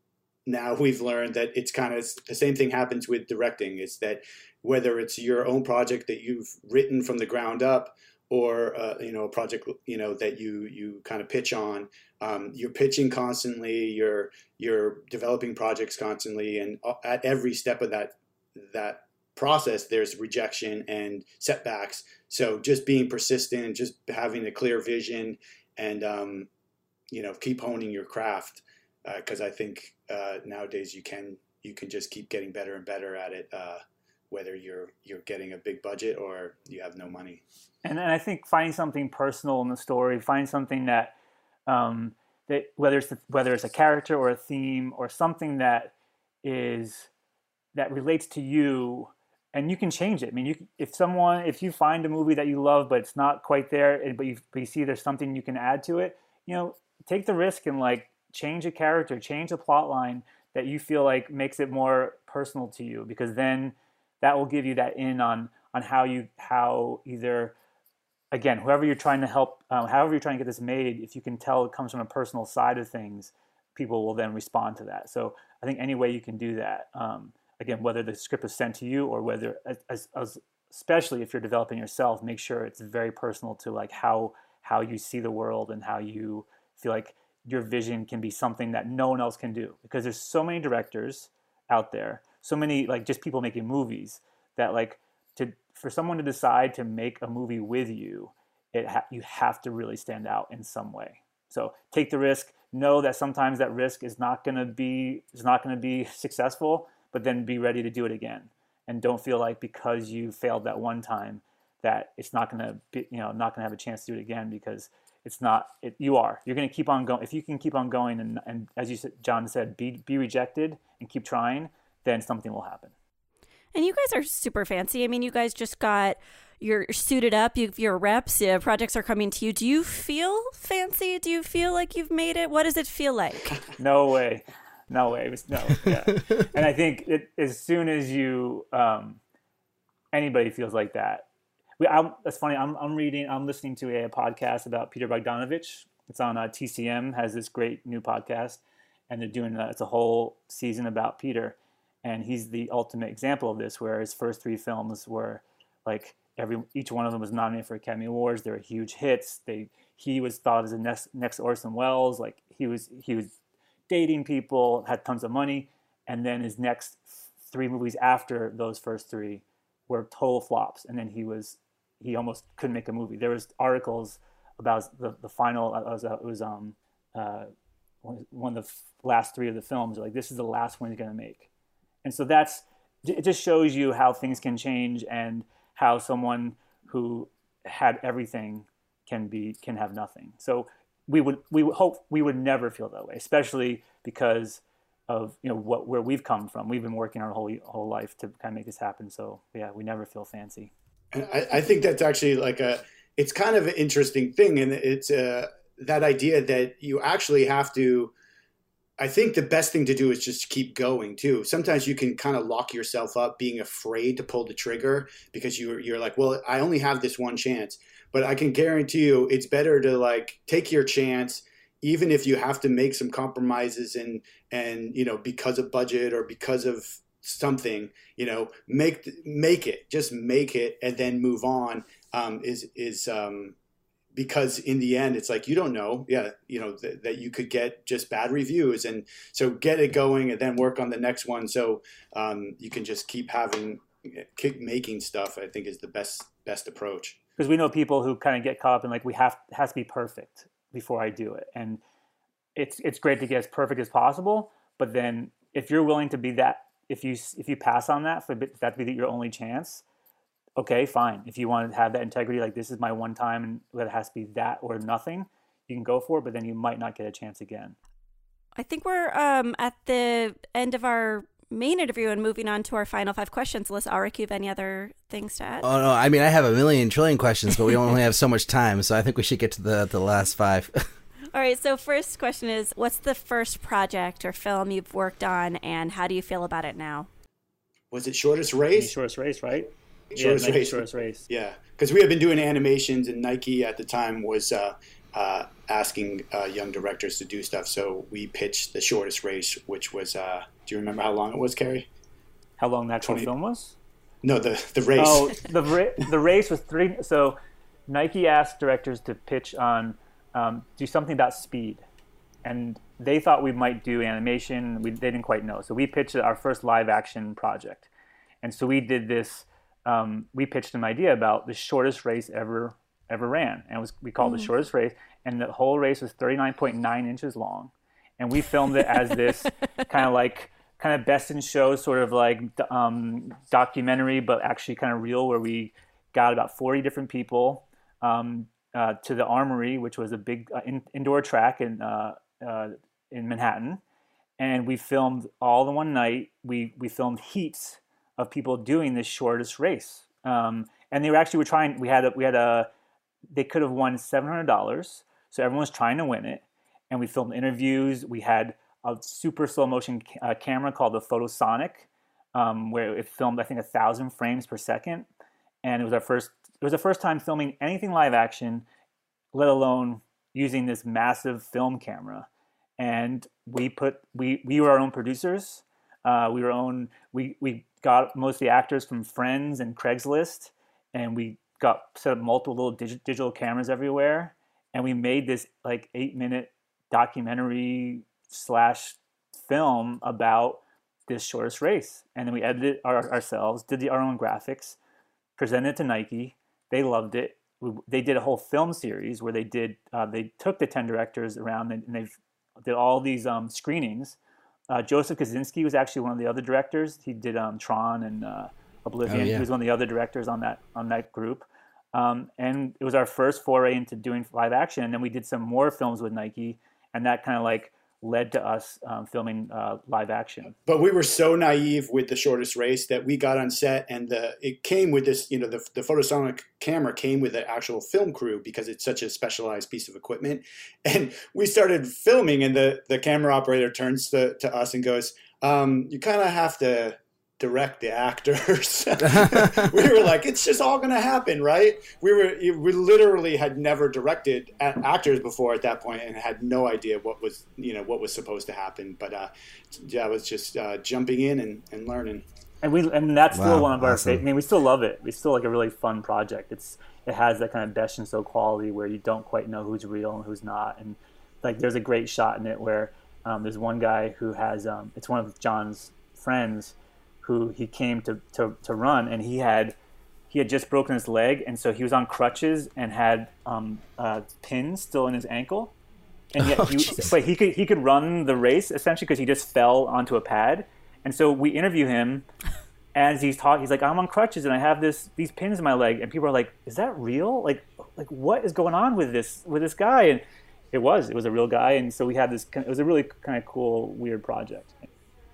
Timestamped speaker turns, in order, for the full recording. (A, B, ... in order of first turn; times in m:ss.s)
0:00.5-0:26.5 A
0:27.1-0:37.4 A
0:37.8-0:41.1 B
0:41.7-0:47.1 B
0:47.8-1:07.5 B
1:08.3-2:02.9 B
2:03.7-2:13.5 C
2:13.8-2:19.2 B
2:20.1-2:21.3 B
2:21.8-2:43.3 B
2:43.9-2:57.5 B
2:58.0-3:01.5 B
3:02.0-3:20.7 B
3:21.1-3:28.1 A
3:29.0-3:53.6 A
3:54.2-4:07.2 A
4:07.4-4:11.8 B
4:12.6-4:19.8 B
4:20.6-4:27.8 B
4:28.6-4:35.7 C
4:35.6-4:40.8 D
4:41.3-4:47.1 C
4:47.9-4:48.9 A
4:48.7-4:51.3 B
4:50.2-5:01.9 A
5:02.6-5:03.8 B
5:03.1-5:03.3 A
5:04.2-5:05.5 A
5:05.0-5:07.4 B
5:07.9-5:11.8 B
5:12.4-5:17.9 B
5:18.4-5:43.8 B
5:24.2-5:24.5 C
5:44.4-5:52.7 B
5:53.3-6:05.1 B
6:05.6-6:08.6 B
6:09.3-6:34.8 B
6:35.4-6:44.2 B
6:44.7-7:00.6 B
6:49.1-6:49.5 D
7:00.6-7:32.2 A
7:19.0-7:19.7 D
7:32.6-7:49.8 B
7:33.3-7:34.2 D
7:50.3-7:55.7 B
7:56.4-7:57.2 D
7:56.4-8:02.2 B
8:03.0-8:14.8 B